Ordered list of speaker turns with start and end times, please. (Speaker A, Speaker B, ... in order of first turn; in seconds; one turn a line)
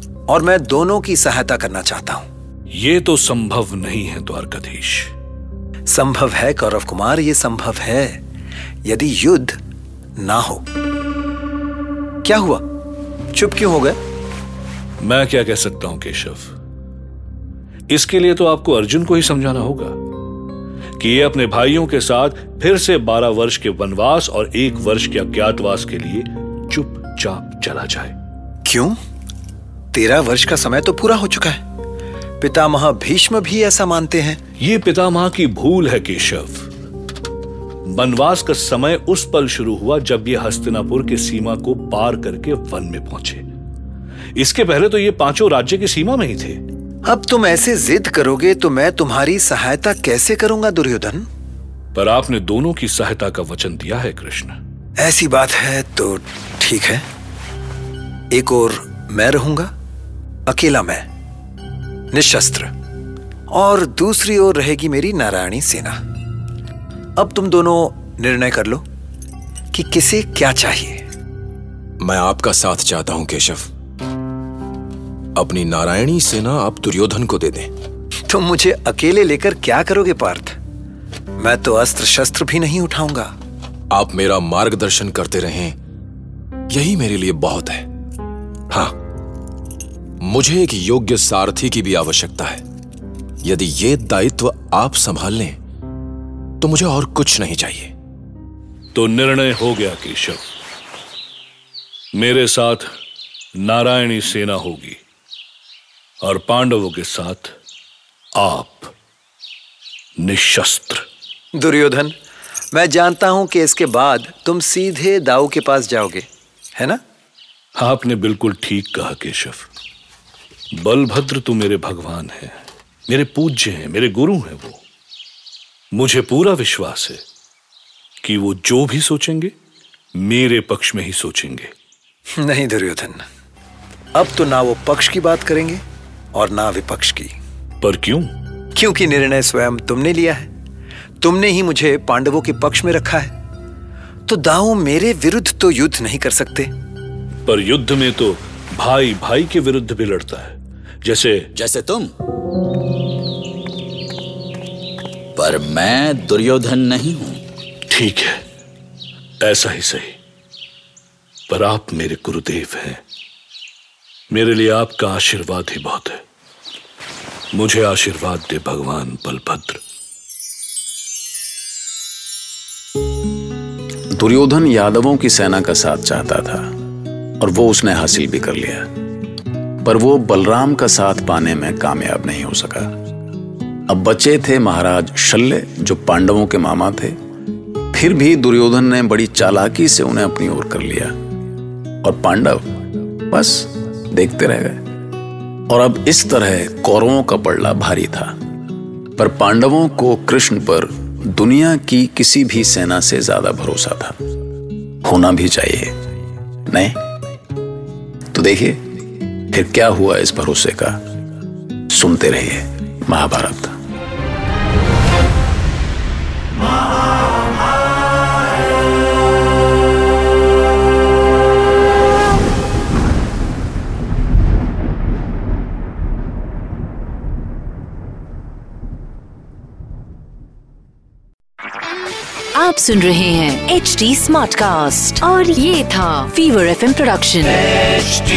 Speaker A: 0.3-2.3
Speaker B: 2.7-5.1
Speaker A: 5.9-8.2
Speaker A: 8.8-9.6
Speaker A: 10.2-10.6
Speaker A: 12.2-12.6
Speaker A: 13.3-14.0
Speaker B: 15.0-16.5
Speaker B: 17.9-20.0
Speaker B: 21.0-28.1
Speaker A: 28.6-28.9
Speaker A: 29.9-31.6
Speaker A: 32.4-34.4
Speaker B: 34.6-36.7
Speaker B: 37.9-43.4
Speaker B: 44.4-46.6
Speaker A: 47.0-51.2
Speaker B: 51.9-54.6
Speaker A: 55.0-57.0
Speaker A: 58.3-59.7
Speaker A: 60.5-61.0
Speaker A: 62.1-62.7
Speaker A: 63.5-66.0
Speaker A: 67.2-68.8
Speaker A: 69.7-71.0
Speaker C: 72.0-73.7
Speaker C: 75.3-77.7
Speaker A: 78.3-80.6
Speaker A: 81.4-83.3
Speaker C: 83.9-85.8
Speaker C: 86.7-87.8
Speaker C: 90.2-92.6
Speaker C: 93.4-95.6
Speaker C: 96.6-97.9
Speaker B: 98.9-100.4
Speaker B: 102.2-102.9
Speaker B: 103.6-105.0
Speaker B: 106.2-107.5
Speaker B: 108.4-108.9
Speaker B: 110.2-111.0
Speaker A: 111.5-112.1
Speaker A: 112.7-117.0
Speaker B: 117.8-119.7
Speaker B: 120.8-124.8
Speaker B: 125.9-127.2
Speaker B: 128.2-129.5
Speaker B: 130.2-131.7
Speaker A: 132.4-133.2
Speaker A: 134.1-135.8
Speaker A: 136.3-137.4
Speaker B: 137.8-138.3
Speaker A: 138.7-140.5
Speaker A: 141.2-143.3
Speaker A: 144.3-146.7
Speaker B: 147.4-151.5
Speaker D: 151.6-152.1
Speaker D: 155.4-157.4
Speaker B: 157.9-158.4
Speaker B: 159.4-160.2
Speaker B: 161.5-163.0
Speaker B: 164.3-166.2
Speaker B: 167.5-169.8
Speaker E: 174.2-176.6
Speaker E: 177.4-178.8
Speaker E: 179.8-182.9
Speaker E: 183.9-187.1
Speaker E: 187.9-191.1
Speaker E: 192.0-192.8
Speaker E: 193.3-194.8
Speaker E: 195.7-198.3
Speaker E: 199.2-204.2
Speaker E: 205.0-205.9
Speaker E: 206.7-206.9
Speaker E: 208.3-208.8
Speaker E: 209.5-211.0
Speaker E: 211.9-213.7
Speaker F: 232.5-237.6